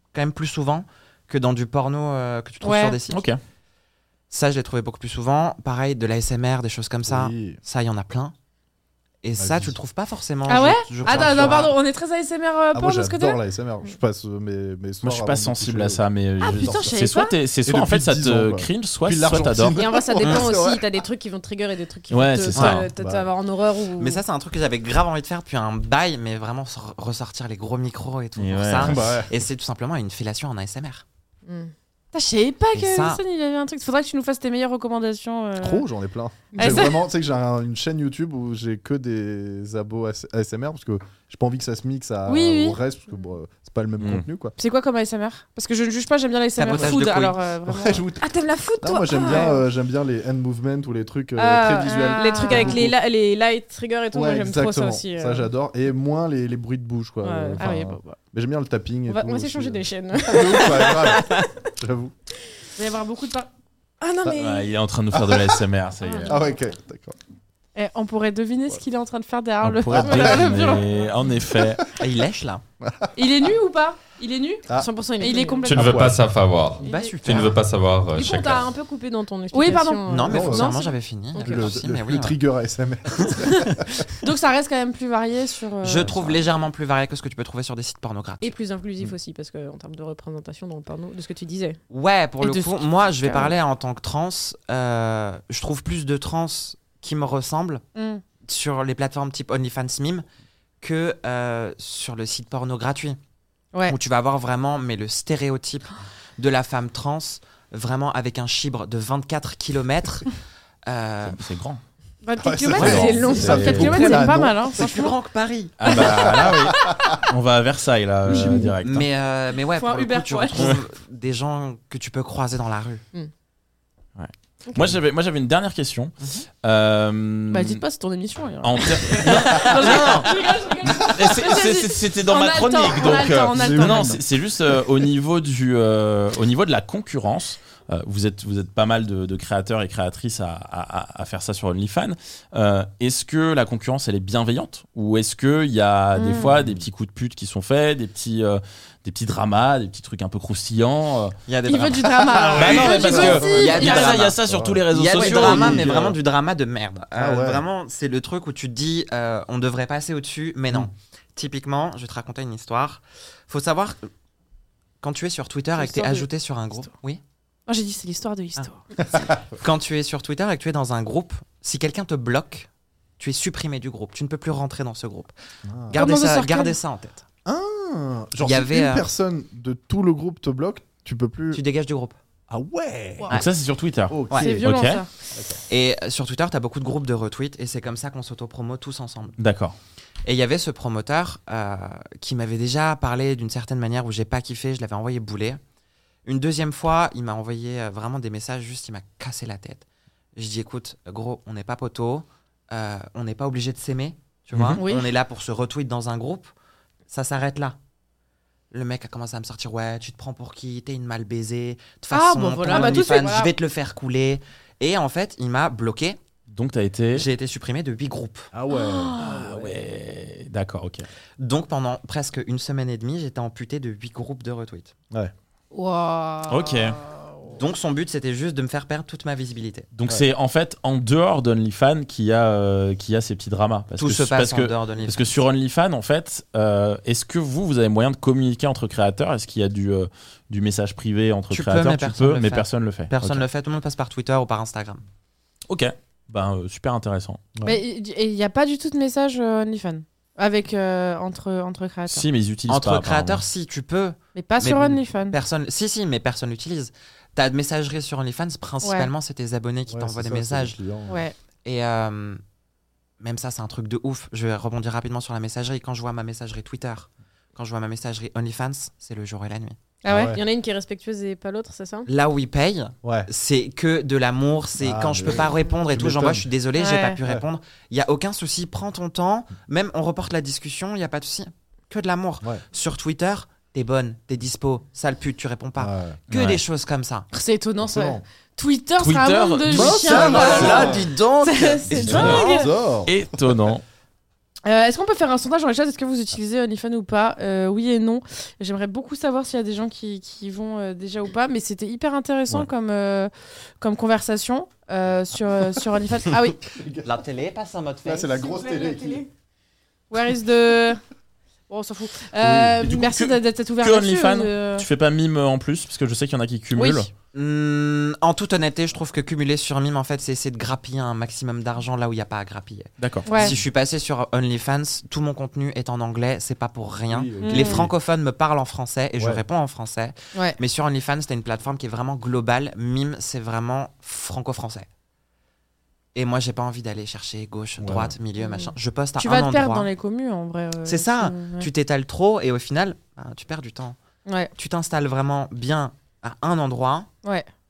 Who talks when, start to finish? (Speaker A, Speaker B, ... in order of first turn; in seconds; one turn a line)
Speaker A: 0.1-3.2
Speaker B: 2.6-3.0
Speaker C: 3.1-3.4
Speaker A: 4.3-8.3
Speaker D: 7.1-7.6
Speaker A: 9.2-11.7
Speaker D: 9.4-9.8
Speaker B: 10.5-13.4
Speaker D: 11.1-11.7
Speaker D: 12.7-16.9
Speaker C: 15.0-19.8
Speaker B: 16.4-17.4
Speaker D: 17.6-20.9
Speaker E: 19.8-24.2
Speaker A: 20.2-20.5
Speaker C: 22.1-22.9
Speaker D: 22.6-23.3
Speaker A: 24.0-31.0
Speaker C: 28.4-29.0
Speaker D: 28.8-29.3
Speaker E: 31.5-31.7
Speaker B: 32.1-35.9
Speaker A: 32.7-33.2
Speaker D: 35.6-44.5
Speaker E: 36.5-36.9
Speaker B: 36.6-37.0
Speaker B: 42.3-42.8
Speaker B: 44.6-48.0
Speaker A: 46.6-47.4
Speaker D: 46.7-47.0
Speaker D: 47.7-53.0
Speaker E: 48.2-49.6
Speaker B: 49.2-49.6
Speaker E: 51.4-55.5
Speaker B: 51.8-52.8
Speaker D: 54.1-62.1
Speaker E: 57.2-57.6
Speaker B: 57.6-58.2
Speaker E: 59.1-61.7
Speaker B: 62.8-63.5
Speaker E: 64.0-64.7
Speaker C: 64.4-66.3
Speaker D: 65.1-65.6
Speaker E: 66.0-66.4
Speaker D: 66.2-67.2
Speaker B: 67.8-70.9
Speaker C: 69.6-71.9
Speaker D: 69.9-70.7
Speaker D: 71.5-71.8
Speaker A: 72.0-72.6
Speaker D: 72.8-73.1
Speaker B: 73.2-74.7
Speaker E: 74.7-75.7
Speaker B: 75.2-76.0
Speaker F: 75.6-78.7
Speaker D: 75.7-76.2
Speaker A: 76.8-77.6
Speaker B: 76.8-77.2
Speaker E: 78.1-81.7
Speaker B: 79.5-80.0
Speaker A: 80.1-82.4
Speaker D: 80.3-80.8
Speaker D: 81.4-84.1
Speaker B: 84.2-86.2
Speaker A: 85.8-88.5
Speaker E: 88.4-91.8
Speaker A: 91.9-97.8
Speaker B: 92.4-93.5
Speaker B: 98.0-98.2
Speaker A: 98.5-100.2
Speaker A: 100.8-103.2
Speaker A: 103.9-110.3
Speaker A: 110.9-111.4
Speaker C: 111.2-111.8
Speaker B: 112.2-115.1
Speaker D: 112.4-115.0
Speaker C: 112.8-113.9
Speaker E: 112.8-114.3
Speaker A: 114.8-116.3
Speaker C: 115.8-119.1
Speaker D: 115.9-117.3
Speaker D: 118.3-118.8
Speaker A: 118.8-123.0
Speaker B: 119.8-120.7
Speaker C: 124.2-127.8
Speaker B: 127.5-134.2
Speaker C: 128.6-151.4
Speaker D: 133.2-134.2
Speaker B: 146.2-146.6
Speaker A: 151.5-154.4
Speaker B: 151.7-154.2
Speaker C: 152.4-156.1
Speaker D: 152.6-156.2
Speaker A: 154.9-164.1
Speaker D: 157.2-157.6
Speaker A: 165.0-167.2
Speaker B: 165.8-166.3
Speaker B: 167.7-169.3
Speaker D: 169.0-169.4
Speaker A: 169.6-172.7
Speaker A: 173.2-175.3
Speaker D: 175.7-176.0
Speaker A: 175.9-177.2
Speaker B: 175.9-176.8
Speaker D: 177.5-181.6
Speaker A: 178.4-179.1
Speaker A: 181.5-182.2
Speaker D: 182.5-183.4
Speaker C: 183.3-185.0
Speaker D: 184.1-184.6
Speaker B: 184.3-185.1
Speaker D: 185.3-185.6
Speaker A: 185.7-189.3
Speaker C: 189.4-189.8
Speaker A: 190.2-195.6
Speaker A: 196.3-199.8
Speaker A: 200.4-206.5
Speaker C: 204.5-204.8
Speaker B: 204.8-205.1
Speaker A: 207.1-207.8
Speaker A: 208.7-216.2
Speaker B: 212.1-213.5
Speaker E: 212.7-213.4
Speaker C: 216.5-217.3
Speaker A: 217.2-218.5
Speaker D: 218.5-219.8
Speaker B: 218.7-219.4
Speaker C: 219.2-221.1
Speaker A: 221.4-224.9
Speaker B: 225.7-227.2
Speaker C: 226.5-227.0
Speaker A: 227.6-229.9
Speaker C: 229.9-243.4
Speaker A: 234.0-235.3
Speaker A: 241.5-245.0
Speaker C: 245.7-247.4
Speaker B: 247.7-252.2
Speaker C: 252.1-253.4
Speaker A: 252.7-260.8
Speaker B: 254.3-255.4
Speaker B: 258.8-259.1
Speaker D: 259.9-261.2
Speaker B: 261.1-261.4
Speaker A: 261.6-262.4
Speaker A: 263.2-269.8
Speaker B: 270.0-270.4
Speaker D: 270.1-270.4
Speaker E: 270.3-272.1
Speaker A: 272.1-287.3
Speaker D: 273.0-273.3
Speaker D: 274.8-276.5
Speaker B: 276.8-277.2
Speaker D: 285.8-286.2
Speaker C: 286.3-286.6
Speaker B: 287.3-292.7
Speaker D: 287.8-288.2
Speaker C: 289.0-291.0
Speaker D: 289.7-291.1
Speaker A: 290.0-292.7
Speaker D: 291.9-293.1
Speaker C: 292.0-292.4
Speaker C: 293.1-293.8
Speaker B: 294.6-306.6
Speaker D: 306.7-307.1
Speaker A: 307.0-309.0
Speaker D: 308.1-309.3
Speaker B: 310.1-311.0
Speaker B: 311.7-314.9
Speaker D: 312.4-312.8
Speaker C: 312.8-317.1
Speaker B: 316.8-317.1
Speaker A: 317.3-334.9
Speaker C: 323.0-323.5
Speaker B: 323.3-323.5
Speaker D: 327.1-327.9
Speaker B: 327.4-327.8
Speaker D: 329.2-329.4
Speaker A: 336.1-339.9
Speaker D: 337.8-338.1
Speaker B: 338.6-341.7
Speaker A: 340.9-344.0
Speaker A: 344.6-347.1